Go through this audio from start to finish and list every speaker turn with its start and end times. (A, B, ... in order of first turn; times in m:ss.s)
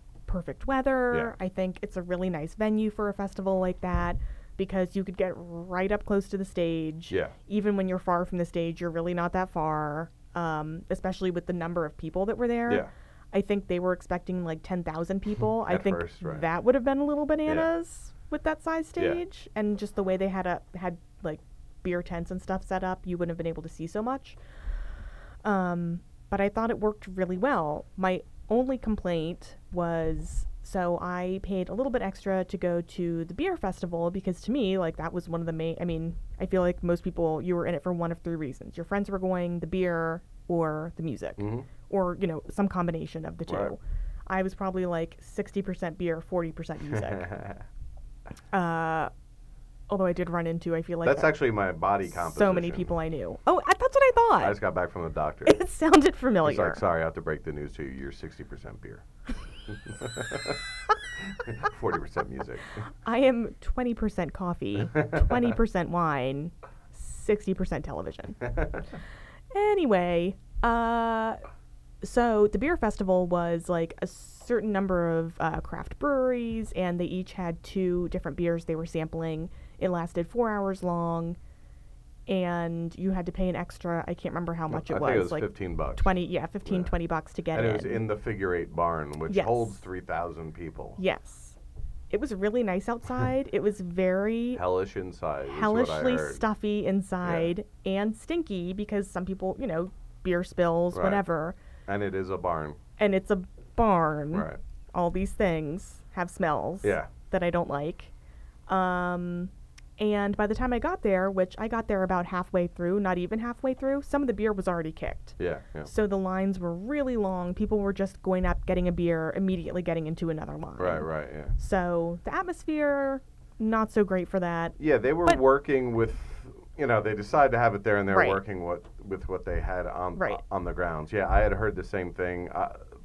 0:00.3-0:24.4 A
0:07.1-0:07.3 B
0:15.6-0:16.4 B
0:25.4-0:47.3 A
0:41.4-0:41.7 B
0:43.5-0:43.7 B
0:47.0-0:47.6 B
0:48.5-0:49.1 A
0:49.9-0:51.4 A
0:51.0-0:52.9 B
0:52.0-0:54.6 A
0:54.4-0:55.6 B
0:55.4-0:56.8 A
0:56.4-0:59.0 B
0:59.7-1:00.6 B
1:01.2-1:02.8 B
1:03.0-1:08.4 A
1:05.0-1:05.2 B
1:08.5-1:08.8 B
1:09.5-1:11.4 A
1:12.0-1:21.4 A
1:22.3-1:28.0 A
1:24.7-1:26.1 B
1:26.6-1:26.9 B
1:27.5-1:31.0 B
1:29.3-1:29.8 A
1:31.0-1:31.6 A
1:32.1-1:34.6 A
1:34.5-1:36.4 B
1:35.5-1:41.6 A
1:37.2-1:37.5 B
1:40.9-1:41.2 B
1:41.9-1:42.8 B
1:43.0-1:48.1 A
1:44.3-1:44.6 B
1:46.8-1:47.1 B
1:48.7-2:05.4 A
1:55.4-1:55.9 B
2:00.8-2:01.5 B
2:04.8-2:12.8 B
2:08.1-2:08.4 A
2:10.2-2:10.4 A